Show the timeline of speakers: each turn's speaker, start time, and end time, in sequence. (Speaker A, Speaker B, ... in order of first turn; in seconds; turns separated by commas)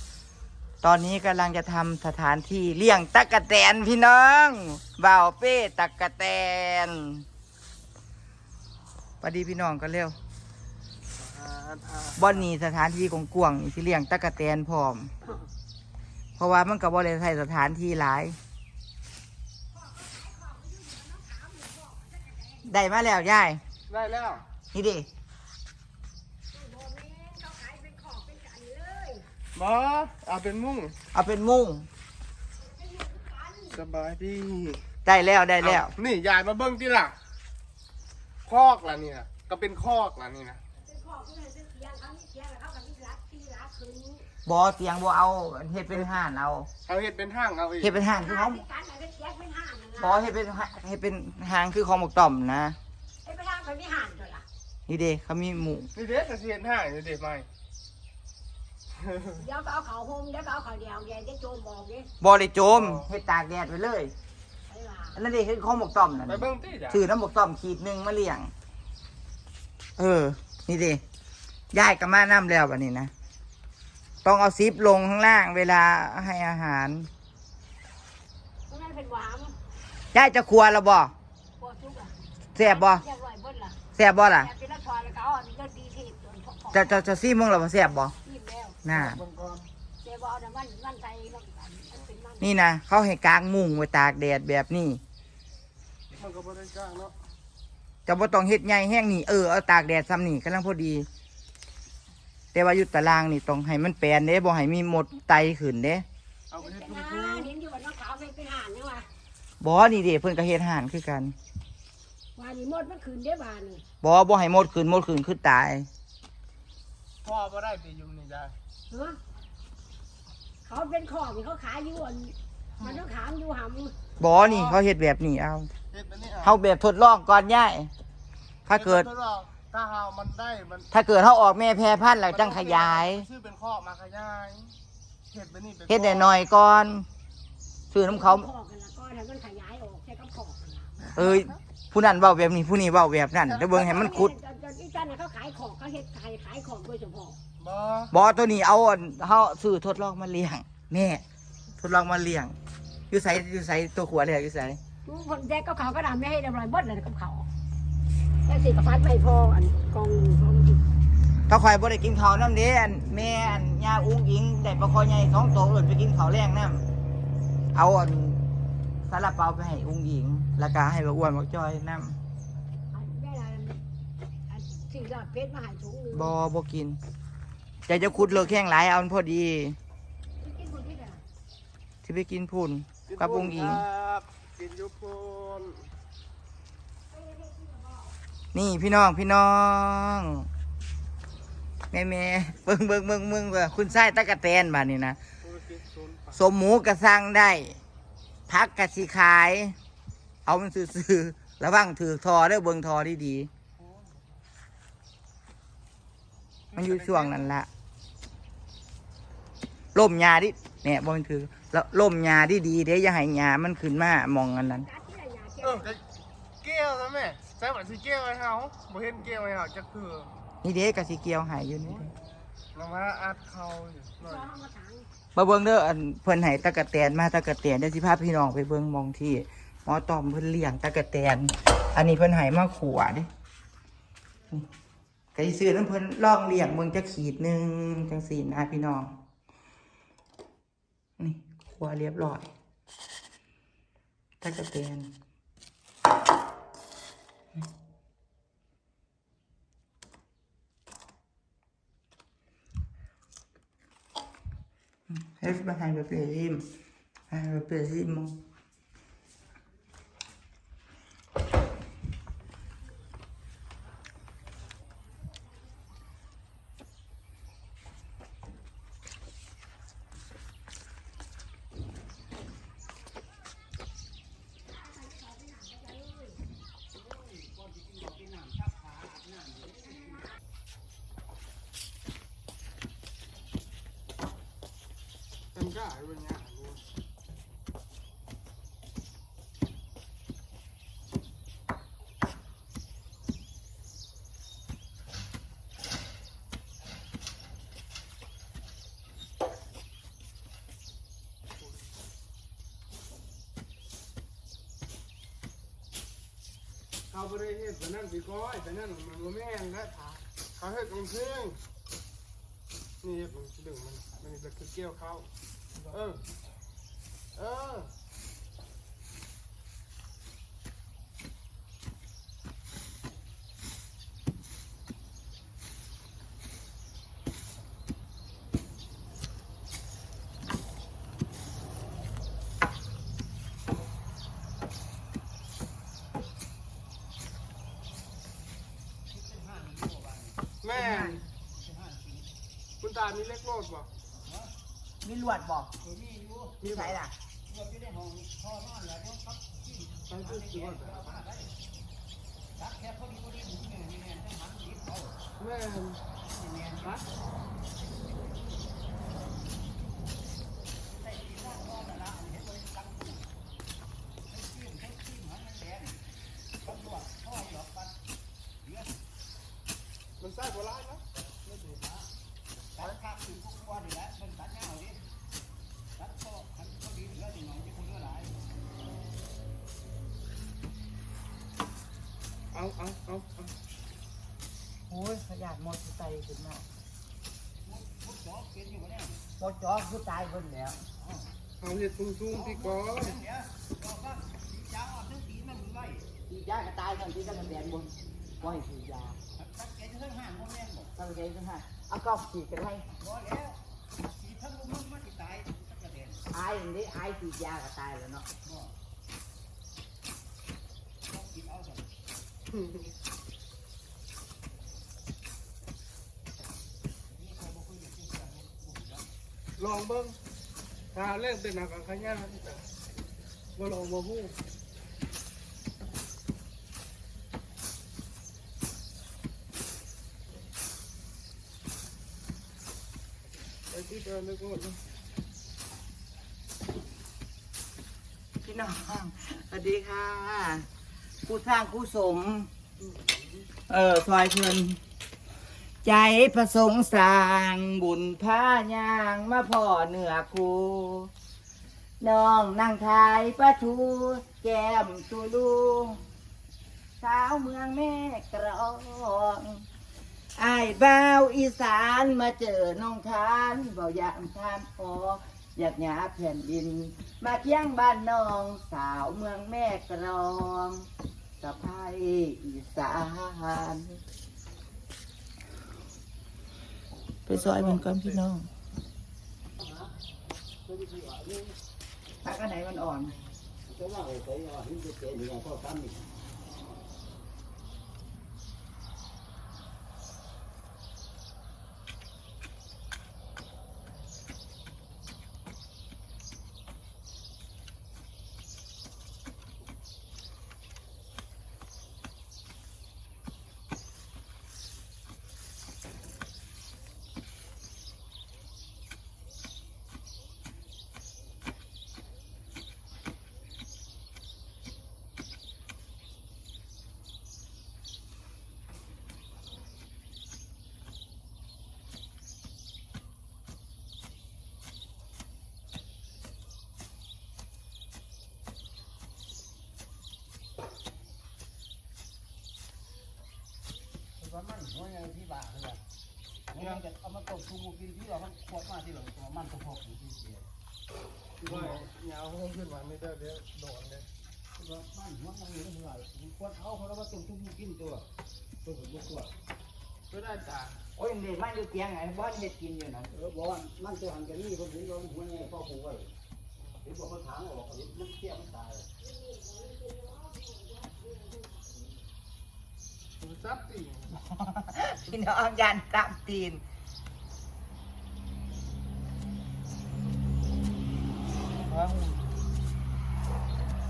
Speaker A: 0.8-7.2, Speaker A: 9.2-10.2, Speaker B: 11.2-12.5, Speaker A: 12.2-15.1, Speaker A: 16.4-18.4, Speaker C: 19.7-22.8, Speaker A: 22.6-23.6, Speaker B: 23.9-24.4, Speaker A: 24.7-25.1, Speaker C: 26.5-29.3, Speaker B: 29.6-31.0, Speaker A: 31.1-31.9, Speaker C: 32.6-33.8, Speaker B: 33.7-34.9, Speaker A: 35.0-36.0, Speaker B: 35.6-37.2, Speaker B: 38.4-40.6, Speaker C: 40.8-44.3, Speaker A: 44.5-46.7, Speaker B: 46.9-48.1, Speaker A: 47.8-48.6, Speaker C: 48.1-50.3, Speaker A: 50.0-52.8, Speaker C: 53.2-54.5, Speaker A: 54.9-55.9, Speaker B: 56.0-57.5, Speaker B: 59.0-59.3, Speaker C: 59.3-62.1, Speaker A: 62.2-64.1, Speaker B: 62.7-63.1, Speaker C: 64.7-65.2, Speaker A: 65.2-68.5, Speaker B: 66.3-67.1, Speaker A: 70.0-71.0, Speaker A: 71.7-73.1, Speaker A: 74.2-77.1, Speaker C: 78.7-79.6, Speaker A: 80.1-81.1, Speaker C: 81.6-87.1, Speaker A: 82.5-83.0, Speaker A: 84.0-84.5, Speaker A: 86.7-88.2, Speaker C: 88.2-88.8, Speaker A: 88.8-89.2, Speaker B: 88.9-89.7, Speaker C: 90.0-92.5, Speaker A: 92.4-95.0, Speaker B: 96.2-97.1, Speaker A: 98.1-101.1, Speaker A: 102.5-106.0, Speaker B: 106.5-107.5, Speaker C: 106.6-109.1, Speaker A: 109.6-111.3, Speaker C: 112.4-113.8, Speaker A: 114.0-115.9, Speaker B: 117.2-118.6, Speaker C: 118.9-119.2, Speaker C: 120.7-124.0, Speaker A: 124.2-125.7, Speaker B: 124.3-124.8, Speaker B: 125.9-126.6, Speaker A: 126.4-127.9, Speaker A: 128.7-129.1, Speaker B: 128.7-130.9, Speaker A: 130.9-133.3, Speaker B: 132.3-134.8, Speaker B: 135.3-136.4, Speaker A: 135.9-137.1, Speaker A: 137.9-138.5, Speaker C: 138.0-141.1, Speaker B: 141.1-141.5, Speaker A: 141.1-144.3, Speaker B: 143.4-143.7, Speaker C: 143.7-147.4, Speaker B: 147.6-148.1, Speaker A: 148.1-151.2, Speaker A: 151.8-152.6, Speaker A: 153.1-154.8, Speaker C: 155.1-157.5, Speaker C: 158.4-160.8, Speaker A: 161.5-166.8, Speaker A: 167.7-168.4, Speaker A: 169.1-172.2, Speaker C: 172.9-173.8, Speaker C: 174.5-176.3, Speaker A: 176.1-177.0, Speaker A: 177.9-179.8, Speaker C: 180.4-181.2, Speaker A: 182.0-183.8, Speaker B: 183.1-185.9, Speaker C: 187.1-188.1, Speaker A: 188.5-190.5, Speaker A: 191.9-195.2, Speaker B: 195.4-196.5, Speaker A: 196.3-197.8, Speaker A: 198.5-199.8, Speaker A: 200.5-203.5, Speaker B: 203.8-204.2, Speaker B: 206.7-207.5, Speaker A: 206.7-207.7, Speaker A: 209.9-214.9, Speaker C: 214.6-216.0, Speaker B: 215.6-216.0, Speaker B: 216.6-220.3, Speaker A: 220.6-222.1, Speaker B: 222.7-224.5, Speaker C: 224.2-225.1, Speaker A: 225.3-233.3, Speaker A: 235.3-239.2, Speaker A: 241.2-242.5, Speaker A: 244.4-245.1, Speaker A: 255.1-256.7, Speaker A: 257.3-258.4, Speaker C: 275.2-276.1, Speaker B: 285.5-286.8, Speaker B: 307.1-311.6, Speaker B: 313.0-315.3, Speaker B: 315.8-316.2, Speaker B: 317.4-317.9, Speaker D: 339.3-340.2, Speaker B: 340.6-341.2, Speaker A: 340.7-341.2, Speaker B: 342.8-343.9, Speaker A: 345.0-345.7, Speaker D: 346.1-346.5, Speaker B: 346.6-346.9, Speaker A: 346.6-347.1, Speaker D: 347.7-349.4, Speaker B: 350.1-351.2, Speaker D: 352.9-354.9, Speaker B: 355.4-356.0, Speaker B: 356.7-357.1, Speaker B: 370.2-371.7, Speaker B: 372.8-373.1, Speaker D: 374.0-374.9, Speaker D: 376.2-378.1, Speaker B: 382.5-383.5, Speaker A: 384.9-386.7, Speaker D: 388.4-389.1, Speaker A: 389.4-390.8, Speaker B: 391.6-393.3, Speaker D: 394.0-396.0, Speaker A: 396.3-399.2, Speaker D: 399.6-400.7, Speaker A: 400.9-402.9, Speaker D: 404.3-406.1, Speaker A: 406.3-408.3, Speaker B: 419.6-420.2, Speaker B: 420.9-422.7, Speaker B: 423.6-424.4, Speaker B: 433.7-434.8, Speaker A: 438.4-440.7, Speaker A: 441.2-442.5, Speaker B: 442.8-443.4, Speaker A: 443.7-444.8, Speaker A: 445.8-451.1, Speaker A: 452.0-456.0, Speaker A: 457.0-459.6, Speaker A: 460.4-470.9, Speaker A: 471.4-474.0, Speaker A: 477.3-478.5, Speaker B: 477.3-478.0, Speaker D: 480.9-481.5, Speaker A: 482.2-483.2, Speaker D: 483.9-485.9, Speaker D: 535.0-535.7, Speaker B: 536.5-536.9, Speaker D: 537.0-540.3, Speaker B: 541.4-544.1, Speaker D: 545.1-548.0, Speaker D: 548.7-549.2, Speaker B: 550.1-550.8, Speaker A: 551.0-553.2, Speaker D: 553.3-556.1, Speaker D: 557.0-558.8, Speaker C: 559.0-561.7, Speaker B: 563.2-564.2, Speaker A: 564.1-566.6, Speaker A: 571.6-572.2